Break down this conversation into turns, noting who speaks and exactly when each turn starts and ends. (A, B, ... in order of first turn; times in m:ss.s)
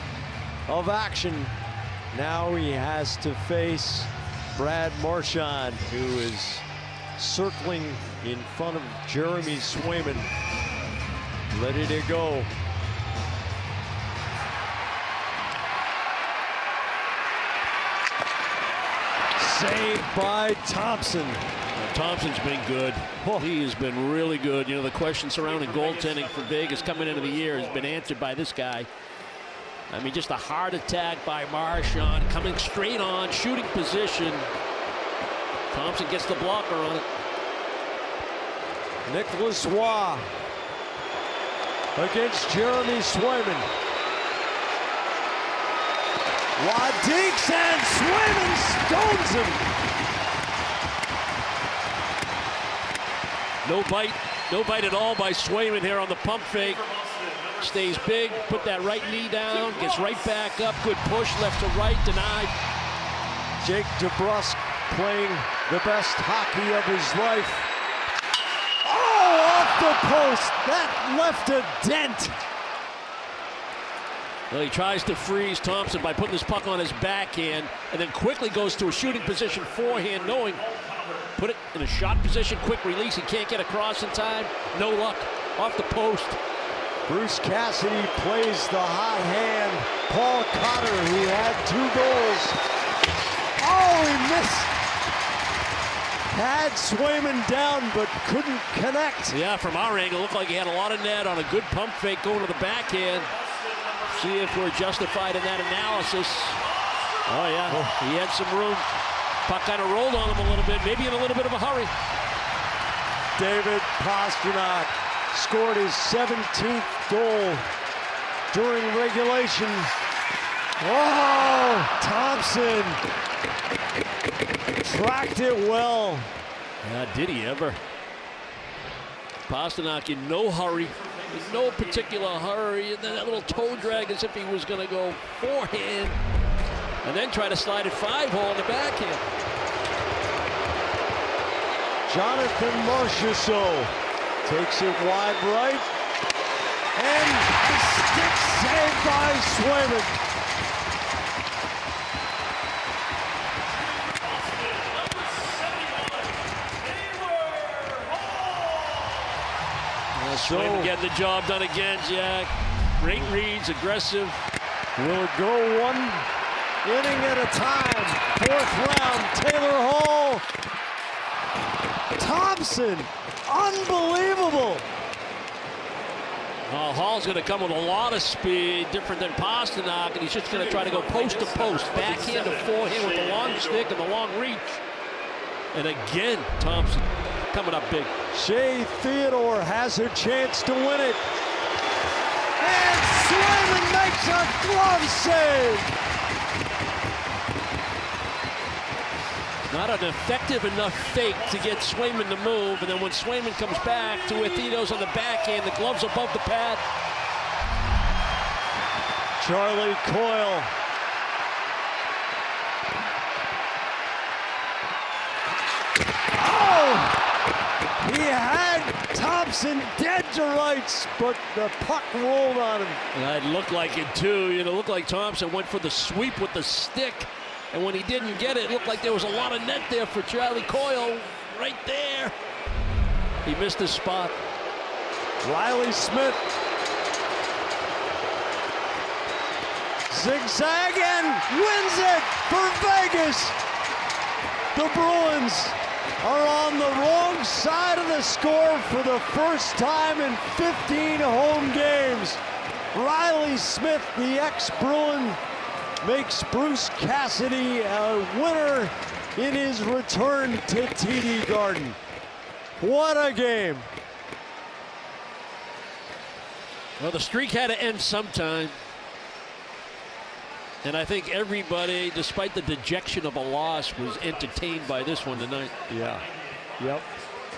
0:00.7-0:01.5 A
0:02.1-0:06.6 A
0:07.2-0:10.3 A
0:11.5-0:12.5 A
0:19.4-0:21.4 A
0:21.8-0:28.9 B
0:23.2-0:23.5 A
0:29.9-0:34.5 B
0:35.7-0:37.0 B
0:39.0-0:40.3 A
0:42.0-0:43.7 A
0:46.6-0:49.7 A
0:53.6-0:56.9 B
0:57.6-1:02.5 B
1:03.6-1:07.7 A
1:08.8-1:12.4 A
1:14.5-1:20.6 B
1:21.4-1:26.4 B
1:27.1-1:32.6 A
1:33.6-1:34.7 A
1:36.3-1:39.4 A
1:39.3-1:43.3 B
1:44.0-1:46.6 B
1:47.2-1:48.9 B
1:47.7-1:47.9 A
1:49.4-1:51.9 B
1:53.4-1:57.6 A
1:58.5-1:59.9 A
2:00.8-2:03.0 A
2:04.8-2:06.3 A
2:06.8-2:07.8 B
2:09.5-2:16.2 B
2:17.0-2:19.2 B
2:22.1-2:23.9 A
2:24.4-2:25.9 A
2:26.9-2:30.1 A
2:34.8-2:36.1 B
2:37.1-2:38.2 B
2:40.1-2:44.4 B
2:40.3-2:40.9 A
2:45.0-2:46.2 A
2:46.8-2:50.4 A
2:52.1-2:54.8 A
2:56.7-3:04.8 B
3:05.7-3:08.1 B
3:08.3-3:11.2 A
3:12.6-3:15.9 A
3:19.6-3:26.8 B
3:29.4-3:30.7 A
3:36.3-3:37.2 A
3:38.0-3:43.0 A
3:43.1-3:52.3 B
3:53.4-3:54.4 B
3:55.4-3:56.4 A
4:00.1-4:03.6 A
4:04.7-4:12.4 A
4:12.9-4:15.4 A
4:16.0-4:22.0 A
4:22.8-4:23.9 A
4:27.0-4:28.8 B
4:30.8-4:35.7 B
4:35.9-4:36.2 A
4:36.8-4:37.0 A